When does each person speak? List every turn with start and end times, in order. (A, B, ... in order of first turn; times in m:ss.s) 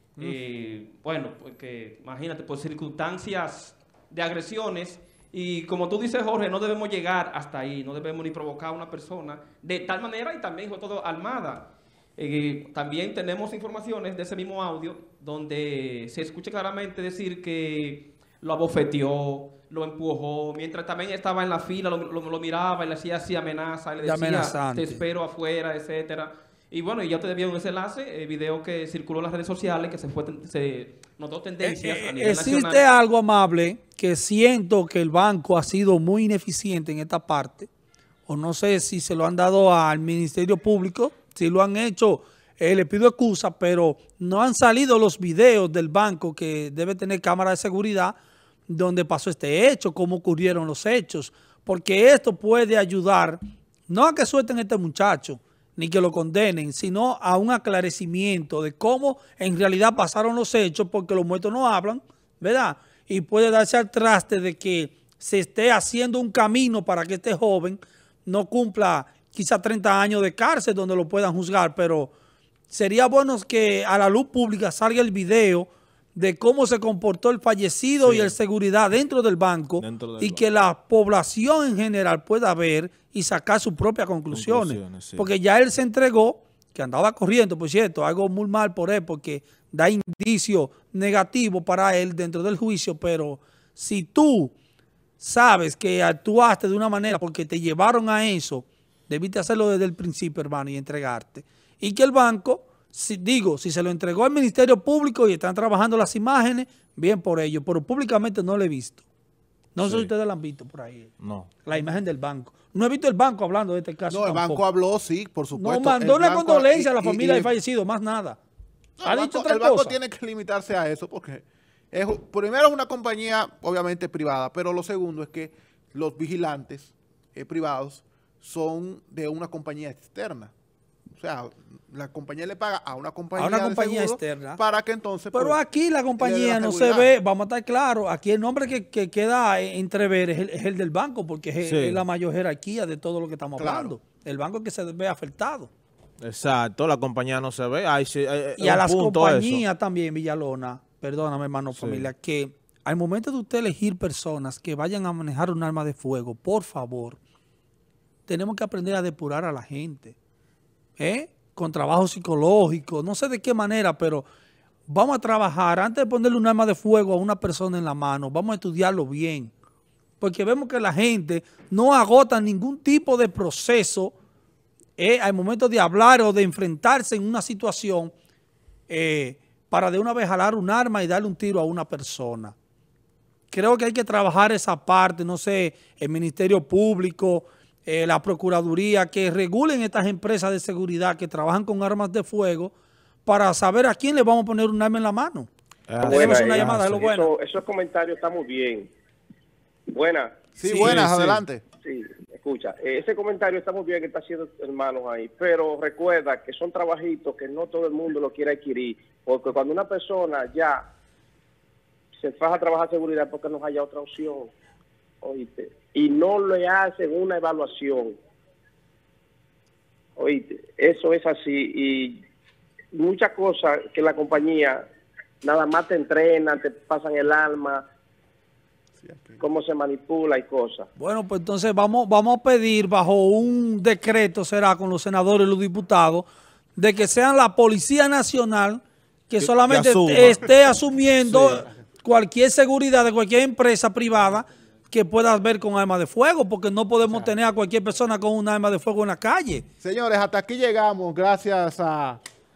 0:00.2-0:32.8 A
0:24.0-0:25.0 B
0:31.6-0:37.7 B
0:38.3-0:48.1 B
0:48.7-0:53.4 B
0:53.9-1:12.1 B
1:12.7-1:34.5 B
1:18.0-1:18.3 C
1:19.8-1:20.4 C
1:24.3-1:25.3 C
1:35.2-1:49.0 B
1:49.7-1:54.6 B
1:49.8-1:50.1 C
1:51.2-1:51.5 C
1:54.1-1:57.5 D
1:55.5-1:58.4 B
1:59.0-2:10.5 D
1:59.0-2:00.0 B
2:11.2-2:15.6 D
2:13.4-2:14.6 B
2:15.3-2:25.7 B
2:16.2-2:17.1 D
2:21.6-2:22.0 C
2:23.6-2:23.9 D
2:26.2-2:29.6 C
2:28.6-2:37.2 B
2:31.7-2:32.1 C
2:38.3-2:40.1 B
2:41.0-2:44.2 B
2:44.9-2:49.5 B
2:50.2-2:54.1 B
2:55.0-2:58.1 B
2:58.9-3:02.5 B
3:03.5-3:12.7 B
3:13.2-3:15.5 B
3:15.9-3:17.1 C
3:16.0-3:18.8 E
3:16.1-3:17.3 B
3:19.9-3:20.3 E
3:20.6-3:21.6 D
3:20.6-3:21.4 B
3:21.8-3:30.8 E
3:32.2-3:34.5 E
3:35.2-3:38.1 E
3:40.2-3:42.1 E
3:42.9-3:44.8 E
3:45.4-3:47.8 E
3:49.0-3:49.4 D
3:49.4-3:50.9 E
3:51.0-4:09.6 B
3:59.4-4:00.6 C
4:01.2-4:01.7 C
4:09.8-4:12.2 D